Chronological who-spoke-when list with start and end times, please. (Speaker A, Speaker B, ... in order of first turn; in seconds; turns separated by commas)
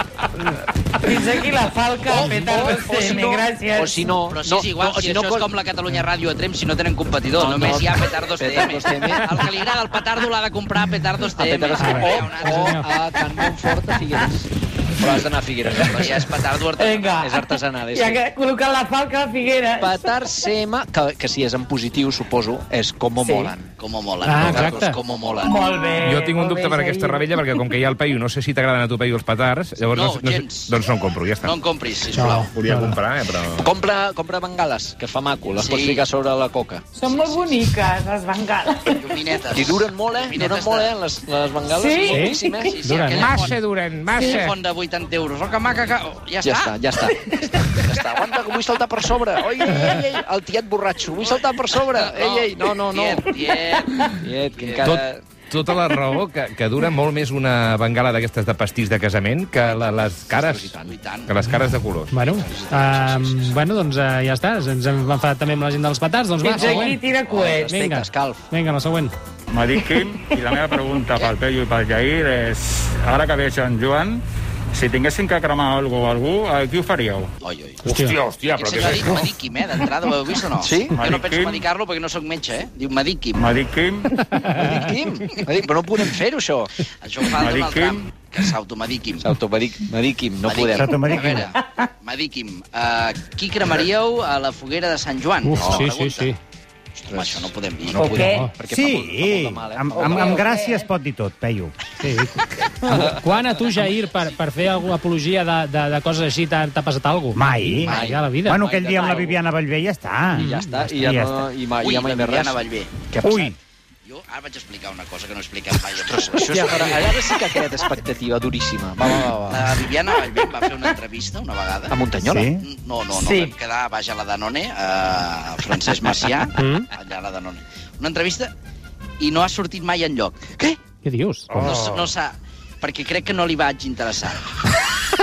Speaker A: 1.0-4.2, Speaker B: 2.0-5.5, Speaker C: 4.3-12.9, Speaker B: 7.3-9.4, Speaker B: 11.3-16.3, Speaker D: 11.8-12.9, Speaker C: 15.8-17.3, Speaker A: 16.8-20.2, Speaker B: 17.1-18.2, Speaker B: 19.8-23.7, Speaker A: 23.1-23.5, Speaker C: 23.8-25.7, Speaker D: 24.2-25.0, Speaker B: 24.4-25.5, Speaker A: 25.4-27.2, Speaker E: 26.0-31.5, Speaker C: 29.9-30.7, Speaker C: 31.4-32.5, Speaker D: 32.1-33.0, Speaker E: 32.5-33.7, Speaker B: 33.6-36.9, Speaker C: 35.5-36.0, Speaker A: 37.0-39.1, Speaker C: 38.9-41.0, Speaker B: 39.5-42.7, Speaker A: 41.7-42.6, Speaker D: 42.1-43.5, Speaker C: 42.3-43.6, Speaker E: 43.1-44.5, Speaker A: 44.1-44.4, Speaker C: 44.2-46.8, Speaker B: 46.4-53.5, Speaker C: 47.8-48.5, Speaker C: 51.2-55.0, Speaker B: 54.0-55.2, Speaker E: 54.8-60.7, Speaker B: 59.6-61.0, Speaker C: 60.8-61.3, Speaker E: 61.3-62.2, Speaker D: 62.1-67.0, Speaker B: 62.3-63.5, Speaker A: 66.4-67.8, Speaker B: 66.5-68.4, Speaker D: 67.7-69.1, Speaker F: 69.5-74.2, Speaker F: 74.7-77.3, Speaker C: 77.4-77.9, Speaker F: 77.8-79.3, Speaker D: 77.8-78.2, Speaker C: 78.4-83.5, Speaker B: 80.6-81.0, Speaker F: 80.9-81.6, Speaker F: 83.3-84.1, Speaker D: 84.3-84.8, Speaker B: 84.4-86.7, Speaker C: 87.0-89.3, Speaker F: 87.3-88.1, Speaker B: 89.2-91.0, Speaker C: 90.4-96.3, Speaker G: 90.8-91.5, Speaker D: 95.4-96.4, Speaker B: 95.6-95.8, Speaker B: 97.0-100.5, Speaker C: 97.0-98.2, Speaker A: 97.9-98.4, Speaker D: 98.1-98.5, Speaker G: 98.7-101.7, Speaker A: 100.2-100.8, Speaker D: 102.0-108.6, Speaker B: 102.8-103.4, Speaker G: 107.3-111.5, Speaker C: 107.8-108.2, Speaker B: 107.9-109.4, Speaker D: 110.3-110.8, Speaker B: 110.3-113.5, Speaker C: 111.8-112.9, Speaker G: 113.2-113.5, Speaker C: 114.0-117.5, Speaker B: 116.0-119.6, Speaker C: 119.5-122.0, Speaker B: 121.9-122.5, Speaker G: 122.2-122.6, Speaker C: 122.6-128.5, Speaker A: 123.1-123.5, Speaker B: 125.9-126.2, Speaker D: 126.5-126.9, Speaker C: 129.2-130.4, Speaker D: 131.0-131.5, Speaker G: 131.5-132.1, Speaker C: 131.6-134.4